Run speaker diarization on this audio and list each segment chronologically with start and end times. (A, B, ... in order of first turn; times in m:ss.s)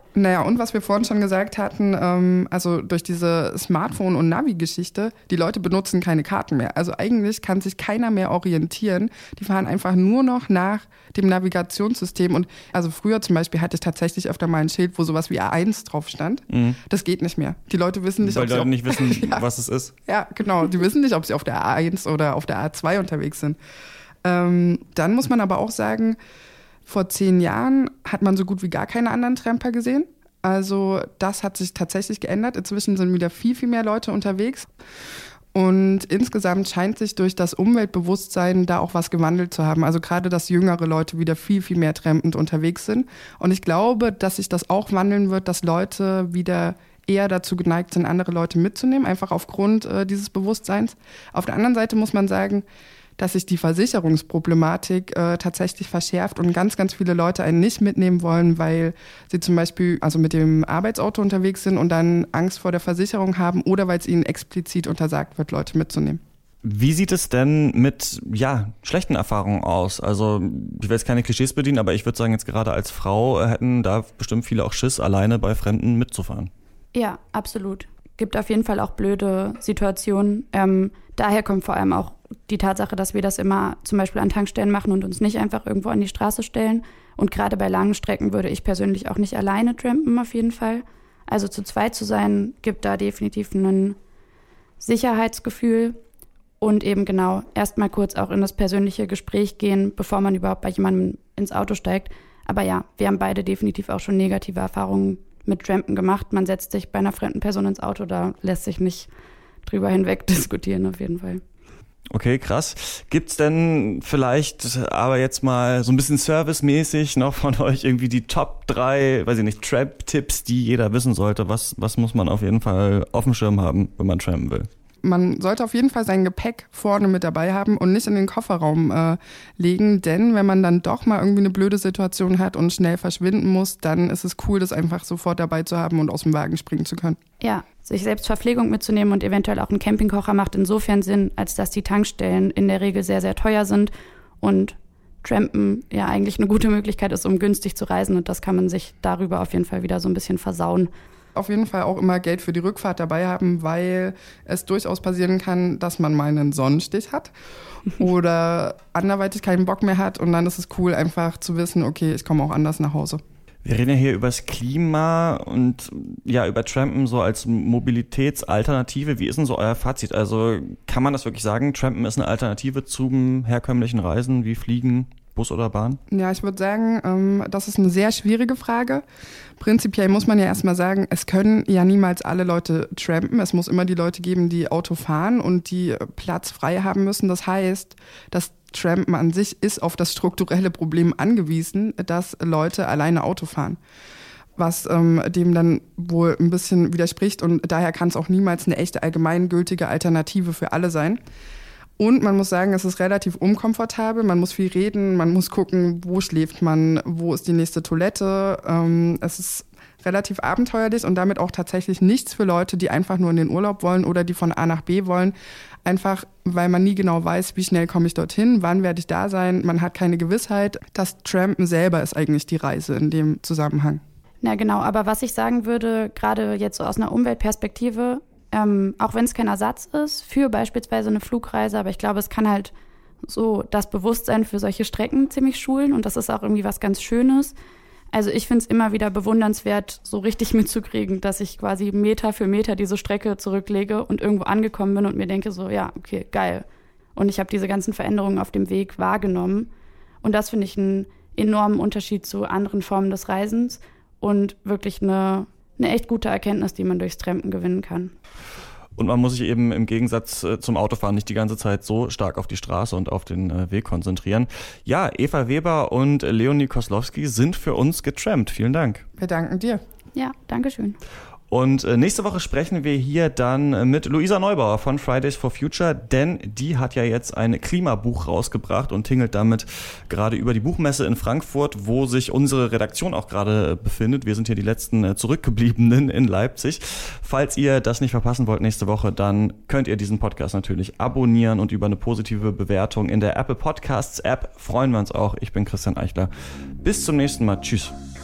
0:00.2-0:19.4 A
0:16.5-0:16.8 B
0:18.2-0:19.9 B
0:20.1-0:23.6 A
0:24.2-0:26.2 A
0:26.9-0:34.7 A
0:35.5-0:52.6 A
0:53.2-1:06.2 A
1:06.6-1:16.5 B
1:16.9-1:34.0 C
1:34.8-1:36.0 C
1:36.6-1:49.1 C
1:49.6-1:51.4 C
1:52.1-2:04.7 B
2:05.0-2:17.2 A
2:17.4-2:30.9 C
2:31.4-2:37.3 A
2:37.9-2:43.2 A
2:43.6-2:56.0 B
2:56.1-2:59.0 A
2:59.6-3:13.8 A
3:14.6-3:21.2 A
3:22.0-3:35.3 A
3:35.8-3:44.0 A
3:44.4-3:57.5 C
3:58.1-4:06.6 C
4:07.2-4:09.7 C
4:10.2-4:18.1 C
4:19.0-4:29.0 B
4:29.2-4:29.8 A
4:30.1-4:31.0 C
4:31.5-4:56.3 B
4:56.8-4:57.9 B